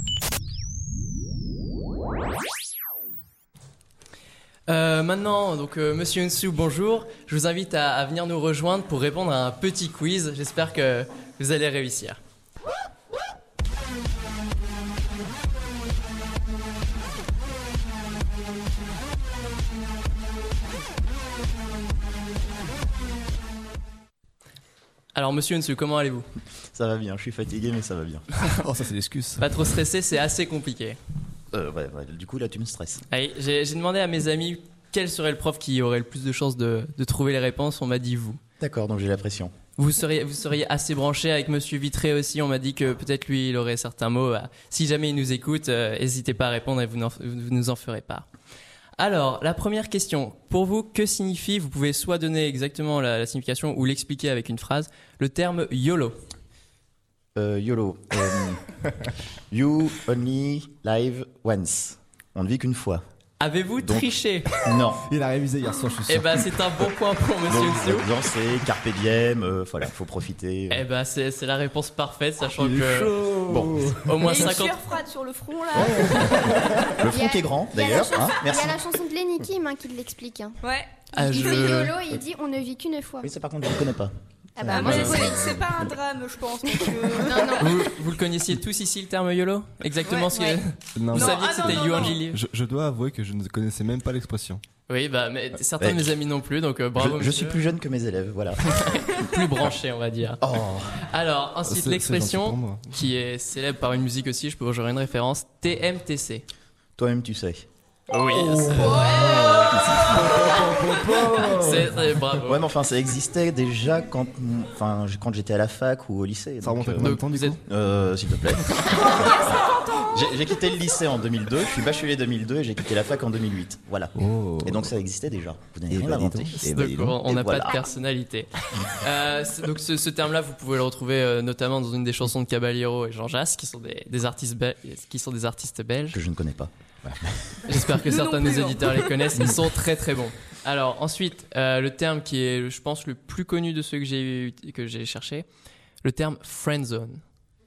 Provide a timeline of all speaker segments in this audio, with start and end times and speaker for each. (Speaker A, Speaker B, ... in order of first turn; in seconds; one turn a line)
Speaker A: 4.7-12.2
Speaker A: 25.1-26.3
Speaker B: 26.7-28.2
Speaker C: 28.5-29.5
Speaker A: 29.4-31.0
Speaker B: 31.5-33.0
Speaker A: 33.1-38.4
Speaker B: 38.6-39.5
Speaker A: 39.8-48.2
Speaker A: 49.0-56.2
Speaker B: 57.4-58.6
Speaker B: 59.5-63.0
Speaker A: 63.4-64.5
Speaker B: 63.8-64.1
Speaker B: 64.6-65.0
Speaker C: 65.0-66.6
Speaker A: 66.1-68.1
Speaker B: 67.5-70.8
Speaker A: 70.7-73.2
Speaker C: 72.6-74.5
Speaker B: 73.5-73.9
Speaker A: 74.0-74.8
Speaker D: 74.2-76.9
Speaker C: 75.7-77.0
Speaker A: 76.0-76.4
Speaker B: 76.9-78.9
Speaker E: 77.0-80.6
Speaker D: 80.6-81.6
Speaker E: 81.1-83.3
Speaker A: 81.1-82.0
Speaker B: 83.2-84.1
Speaker E: 84.6-85.5
Speaker D: 84.6-87.8
Speaker B: 84.7-85.3
Speaker A: 84.7-85.3
Speaker E: 86.8-87.7
Speaker A: 87.6-92.4
Speaker D: 90.1-92.2
Speaker C: 91.0-94.6
Speaker A: 94.9-97.6
Speaker B: 95.8-96.2
Speaker B: 97.0-98.6
Speaker A: 98.7-100.4
Speaker B: 100.4-101.0
Speaker A: 101.1-106.5
Speaker C: 101.6-102.9
Speaker B: 107.0-107.6
Speaker A: 108.1-109.2
Speaker C: 108.3-112.0
Speaker D: 108.7-111.0
Speaker B: 109.7-110.2
Speaker A: 111.3-112.6
Speaker B: 112.5-127.8
Speaker C: 116.6-117.6
Speaker A: 117.0-117.6
Speaker C: 124.2-124.9
Speaker C: 125.9-127.0
Speaker A: 126.6-136.2
Speaker B: 136.1-137.8
Speaker A: 137.7-145.4
Speaker D: 138.1-139.1
Speaker A: 146.0-147.2